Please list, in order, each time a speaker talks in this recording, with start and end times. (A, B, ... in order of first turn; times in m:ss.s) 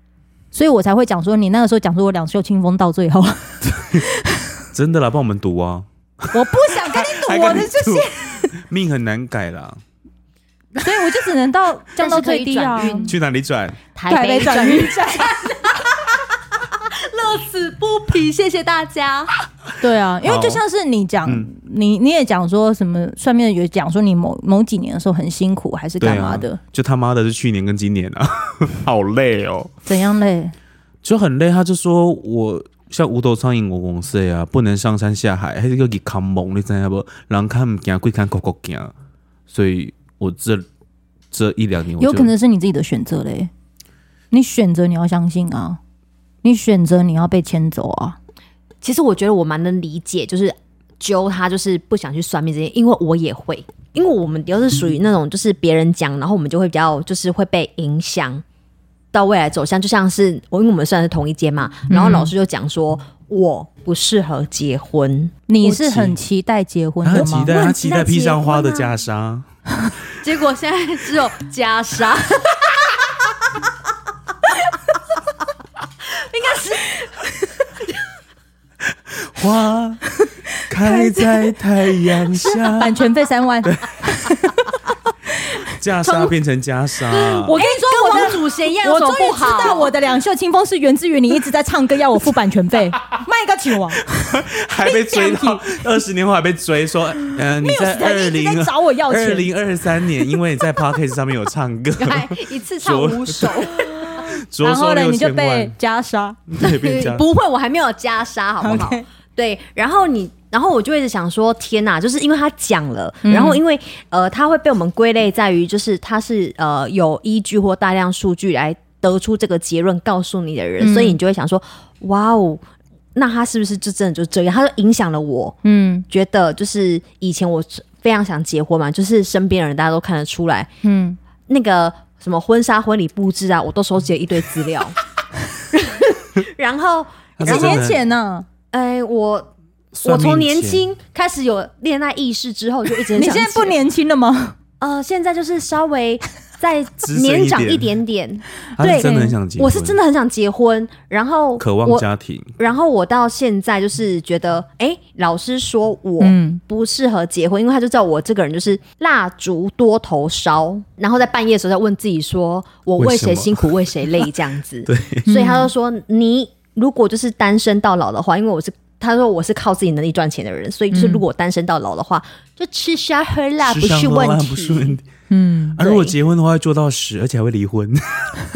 0:00.5-0:04.4 A
0:04.7-0:09.8 B
0:06.3-0:08.6 A
0:10.8-0:13.1 A
0:12.0-0:13.2 C
0:13.0-0:13.8 B
0:13.9-0:19.4 C
0:14.1-0:15.4 A
0:19.8-0:26.6 A
0:20.2-0:20.6 B
0:26.0-0:29.7 B
0:29.8-0:30.5 A
0:31.0-0:38.9 B
0:39.5-0:40.6 B
0:41.3-0:42.3 B
0:42.0-0:43.5 A
0:44.3-0:45.8 A
0:46.4-0:48.2 A
0:48.8-0:58.4 C
0:59.1-1:05.9 C
1:01.9-1:02.3 A
1:05.5-1:07.5 A
1:05.9-1:06.1 B
1:07.0-1:09.5 B
1:07.2-1:09.0 C
1:10.2-1:13.3 C
1:16.0-1:18.0 C
1:19.1-1:20.0 B
1:20.7-1:23.0 B
1:20.8-1:21.4 A
1:22.4-1:22.8 C
1:22.7-1:24.8 A
1:25.4-1:25.6 A
1:25.8-1:27.5 B
1:26.0-1:26.3 C
1:27.1-1:29.9 C
1:27.5-1:34.0 A
1:34.1-1:45.7 B
1:34.8-1:35.6 A
1:37.5-1:39.5 A
1:42.0-1:43.9 C
1:43.8-1:46.4 A
1:46.5-1:47.2 B
1:46.6-2:02.6 C
1:48.6-1:49.0 A
1:53.2-1:53.6 A
2:00.8-2:01.2 A
2:03.1-2:05.6 C
2:05.6-2:06.0 A
2:06.1-2:10.7 C
2:10.8-2:11.2 A
2:11.5-2:15.0 C
2:15.7-2:17.9 C
2:17.4-2:18.0 B
2:17.4-2:18.5 A
2:18.7-2:19.5 C
2:19.9-2:20.9 B
2:20.0-2:23.8 C
2:23.1-2:24.6 A
2:24.8-2:32.0 C
2:27.0-2:27.9 B
2:28.8-2:30.0 B
2:28.8-2:29.3 A
2:31.6-2:32.5 B
2:32.6-2:55.0 C
2:36.2-2:36.6 A
2:43.0-2:44.1 B
2:44.8-2:45.2 B
2:45.2-2:45.7 A
2:50.9-2:51.2 A
2:53.6-2:55.0 B
2:55.3-2:55.8 A
2:55.8-2:58.3 B
2:55.8-2:56.2 C